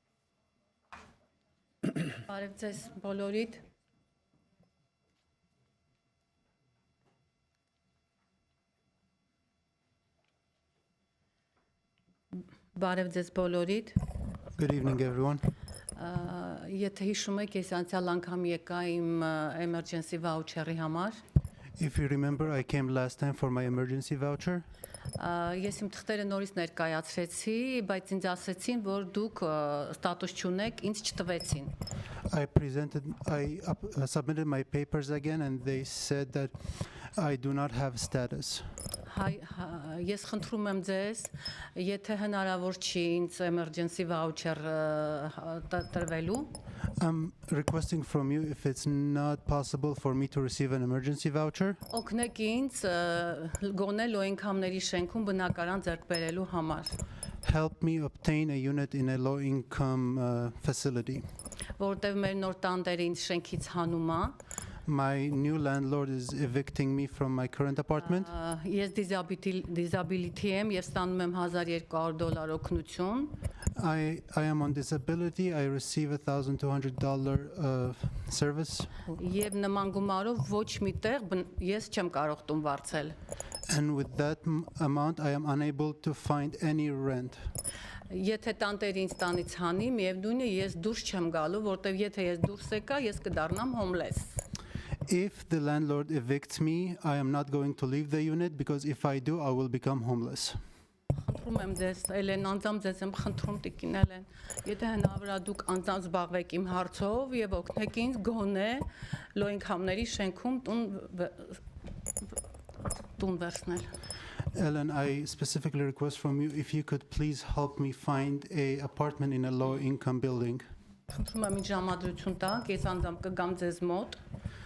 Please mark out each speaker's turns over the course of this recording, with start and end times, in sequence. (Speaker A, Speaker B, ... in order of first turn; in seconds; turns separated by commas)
Speaker A: 2.2-3.6, Speaker A: 12.7-14.0, Speaker B: 14.6-15.4, Speaker A: 15.9-21.2, Speaker B: 21.8-24.6, Speaker A: 25.2-31.7, Speaker B: 32.3-36.5, Speaker B: 37.1-38.6, Speaker A: 39.1-46.6, Speaker B: 47.0-51.8, Speaker A: 51.9-56.9, Speaker B: 57.4-61.2, Speaker A: 61.8-64.3, Speaker B: 64.9-68.3, Speaker A: 68.1-73.4, Speaker B: 73.8-78.9, Speaker A: 79.1-83.2, Speaker B: 83.7-87.4, Speaker A: 88.1-94.4, Speaker B: 95.1-100.6, Speaker A: 101.2-108.8, Speaker A: 109.3-111.6, Speaker A: 113.0-113.8, Speaker B: 114.5-120.6, Speaker A: 121.1-124.2